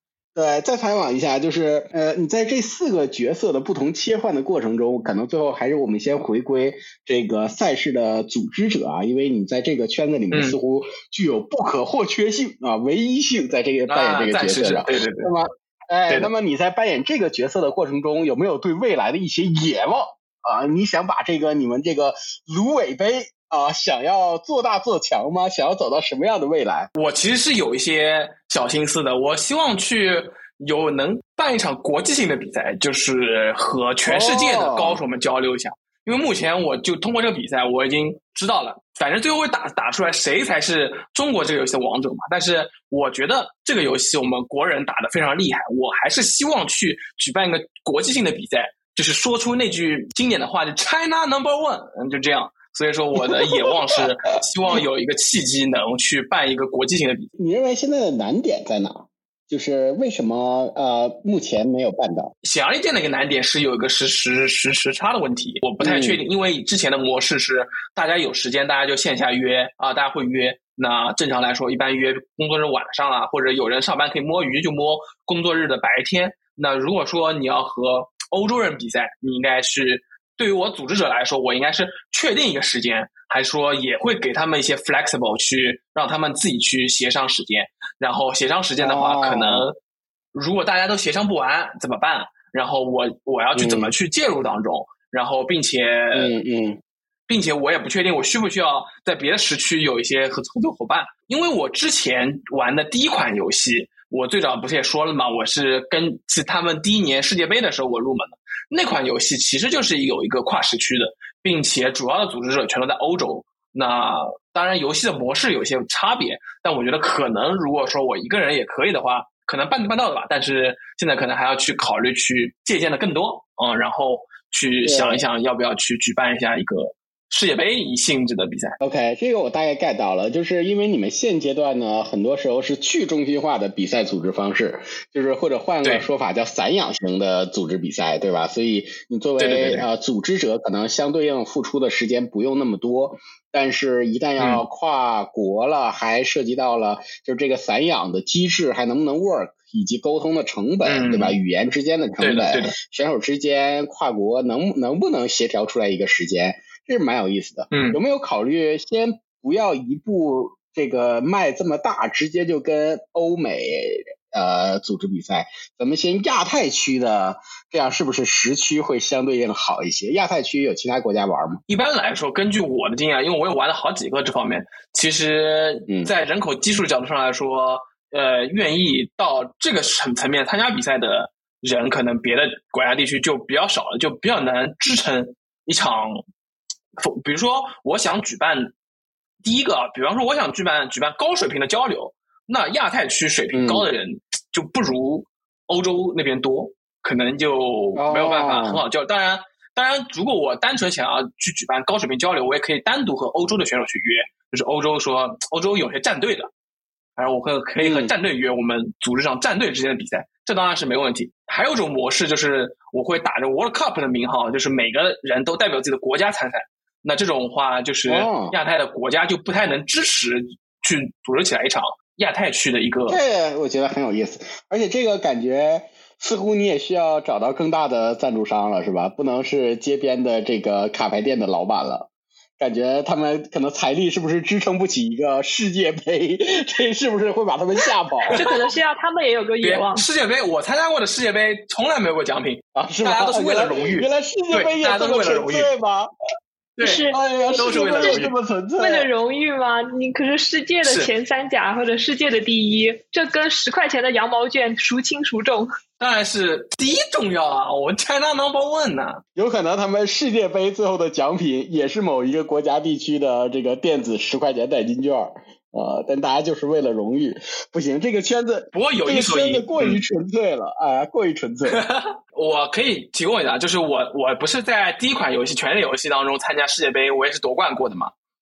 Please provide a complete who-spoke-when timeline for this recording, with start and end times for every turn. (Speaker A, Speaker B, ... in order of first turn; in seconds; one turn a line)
Speaker A: 0.3-26.9
Speaker B: 10.3-10.6
Speaker B: 13.9-15.3
Speaker B: 26.9-57.3
Speaker A: 34.0-35.0
Speaker A: 53.2-54.0
Speaker A: 57.4-62.3
Speaker B: 62.4-89.7
Speaker A: 65.8-66.2
Speaker A: 88.8-89.7
Speaker B: 90.3-96.3
Speaker A: 93.5-93.9
Speaker A: 96.1-96.8
Speaker B: 97.3-128.8
Speaker A: 124.8-125.2
Speaker A: 128.8-171.6
Speaker B: 139.4-139.8
Speaker B: 150.8-151.4
Speaker B: 152.2-152.7
Speaker B: 157.7-158.0
Speaker B: 171.7-186.2
Speaker B: 187.0-188.7
Speaker B: 189.4-206.5
Speaker A: 193.5-193.9
Speaker A: 197.9-198.8
Speaker B: 207.2-223.2
Speaker A: 207.8-208.1
Speaker A: 218.1-218.6
Speaker A: 223.1-238.4
Speaker C: 238.3-240.0
Speaker B: 239.6-245.7
Speaker A: 242.7-246.1
Speaker B: 246.8-248.3
Speaker C: 246.8-247.2
Speaker A: 247.1-249.1
Speaker C: 248.8-255.7
Speaker B: 250.8-251.1
Speaker B: 256.0-259.2
Speaker A: 259.4-271.8
Speaker B: 268.7-270.0
Speaker B: 271.7-278.1